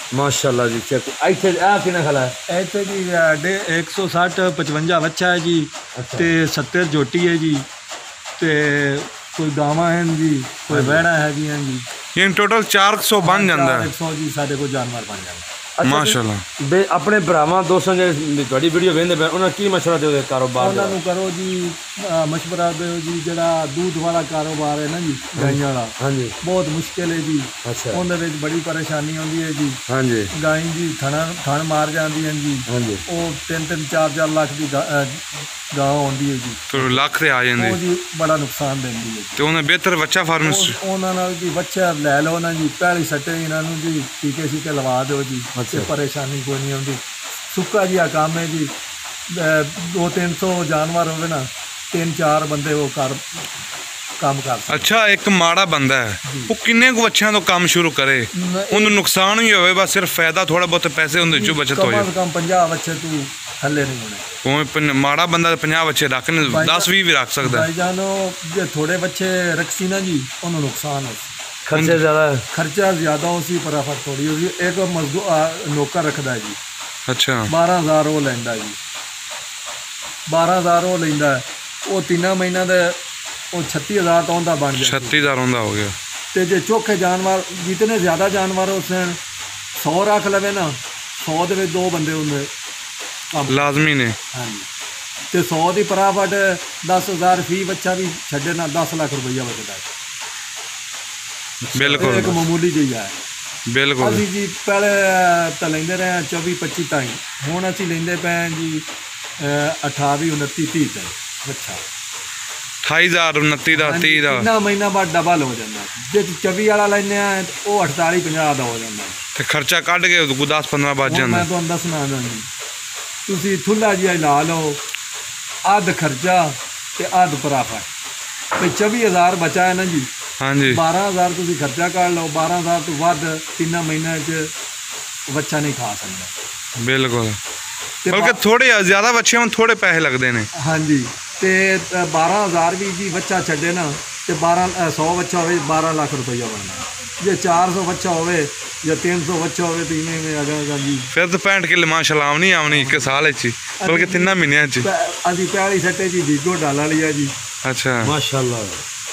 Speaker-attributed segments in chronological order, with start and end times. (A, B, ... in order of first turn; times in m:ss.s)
0:00.1-0:02.4 A
0:02.5-0:07.7 B
0:06.0-0:06.4 A
0:08.4-0:11.8 B
0:10.7-0:11.0 A
0:12.2-0:13.9 C
0:13.2-0:15.5 B
0:15.8-0:21.0 A
0:15.8-0:16.4 C
0:20.6-0:29.8 B
0:25.4-0:26.4 A
0:27.6-0:28.0 A
0:29.9-0:30.3 A
0:30.3-0:37.0 B
0:32.7-0:33.0 A
0:36.7-0:37.8 C
0:37.6-0:39.6 B
0:39.4-0:40.8 C
0:40.4-0:48.7 B
0:45.6-0:45.9 A
0:49.3-0:53.4 B
0:54.2-0:55.0 B
0:54.7-1:02.1 C
0:56.2-0:56.5 B
0:58.3-0:59.0 B
1:01.3-1:04.4 B
1:04.4-1:07.7 C
1:06.4-1:11.4 B
1:11.7-1:12.4 A
1:11.7-1:12.0 C
1:12.5-1:16.6 B
1:17.1-1:17.5 C
1:17.5-1:18.8 B
1:20.3-1:23.0 B
1:23.5-1:25.3 B
1:24.8-1:26.0 C
1:26.3-1:29.2 B
1:29.8-1:32.5 B
1:33.3-1:33.8 B
1:33.5-1:34.2 C
1:34.3-1:34.7 B
1:35.3-1:39.9 B
1:41.8-1:42.4 C
1:41.8-1:43.2 B
1:43.7-1:44.2 C
1:44.0-1:48.9 B
1:49.4-1:51.8 B
1:52.8-1:54.5 C
1:53.7-1:59.2 B
1:59.4-2:01.5 C
2:01.0-2:02.5 B
2:03.3-2:04.8 B
2:05.6-2:07.9 B
2:08.6-2:10.1 B
2:10.4-2:10.8 C
2:10.7-2:14.5 B
2:15.3-2:16.3 B
2:16.8-2:17.4 C
2:18.0-2:18.4 B
2:18.1-2:20.5 C
2:20.5-2:31.1 B
2:31.1-2:34.9 C
2:32.7-2:33.2 B
2:33.8-2:37.3 B
2:37.6-2:38.1 C
2:38.0-2:38.8 A